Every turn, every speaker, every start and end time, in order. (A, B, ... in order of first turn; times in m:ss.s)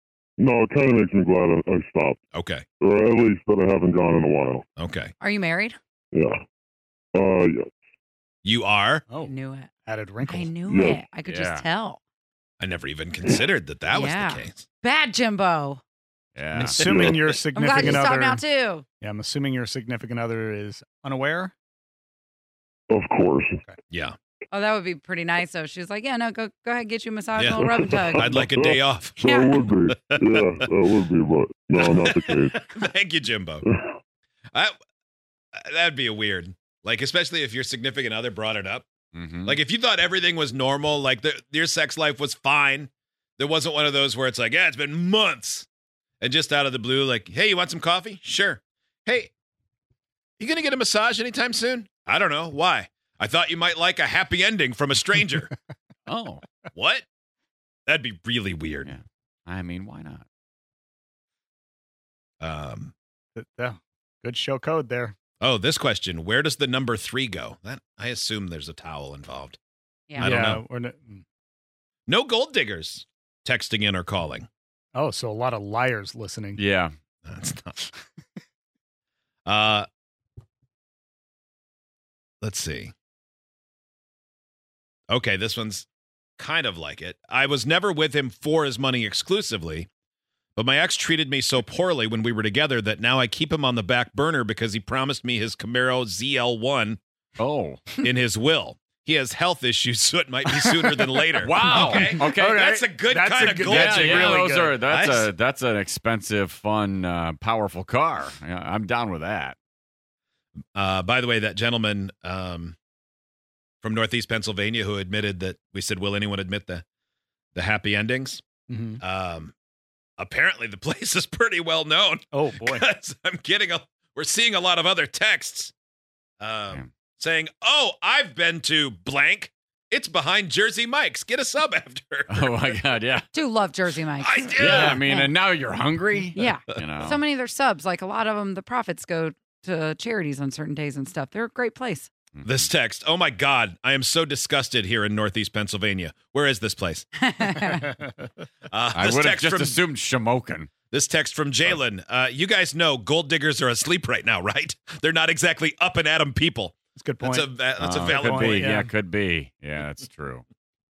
0:00.4-0:02.2 A
0:02.3-0:02.6 B
0:02.8-0:04.6 A
0:04.8-0:05.1 B
0:05.2-0:05.8 C
0:06.1-0:06.4 A
0:07.2-0:07.7 A
0:08.4-0:09.0 B
0:09.3-0:12.0 C
0:09.9-0:10.5 D
0:10.7-0:11.0 A
0:11.2-0:11.7 E
0:12.6-0:14.7 B
0:13.9-0:15.8 C
0:16.4-0:16.8 E
0:16.5-0:18.4 D
0:16.8-0:17.2 A
0:17.6-0:18.9 C
0:17.8-0:18.0 A
0:19.0-0:21.5 D
0:22.9-0:23.6 A
0:23.9-0:24.2 B
0:24.5-0:28.4 C
0:27.4-0:29.3 B
0:27.6-0:32.6 A
0:29.2-0:29.6 C
0:30.1-0:30.4 B
0:31.8-0:33.7 B
0:35.6-0:38.9 B
0:39.1-0:39.6 E
0:39.4-0:45.7 B
0:46.2-0:49.3 B
0:50.4-0:55.5 B
0:56.1-0:56.4 E
0:56.7-0:57.1 B
0:57.9-0:59.0 B
0:58.8-1:00.2 E
1:02.4-1:02.9 B
1:03.4-1:05.2 D
1:05.4-1:09.6 B
1:10.1-1:10.4 C
1:10.2-1:11.2 D
1:10.2-1:10.6 B
1:12.1-1:14.5 B
1:15.0-1:16.6 D
1:16.6-1:16.9 E
1:17.2-1:17.8 B
1:19.4-1:19.9 B
1:22.4-1:22.9 B
1:25.1-1:29.9 B
1:30.6-1:37.0 B
1:37.4-1:37.9 E
1:38.0-1:45.3 B
1:40.6-1:44.8 D
1:41.4-1:42.6 E
1:43.6-1:49.6 E
1:50.8-1:52.8 B
1:53.8-1:56.8 B
1:57.5-1:58.4 B
1:58.7-1:59.0 D
1:59.0-1:59.5 B
2:00.2-2:05.7 B
2:02.3-2:02.8 D
2:06.4-2:12.7 B
2:12.3-2:13.3 E
2:13.3-2:15.3 C
2:14.2-2:15.0 B
2:14.6-2:17.2 E
2:16.4-2:22.1 C
2:22.3-2:22.7 E
2:22.4-2:27.1 B
2:27.2-2:27.9 C
2:28.7-2:29.8 B
2:28.9-2:30.7 E
2:30.9-2:38.7 B
2:37.0-2:38.9 D
2:37.8-2:40.4 E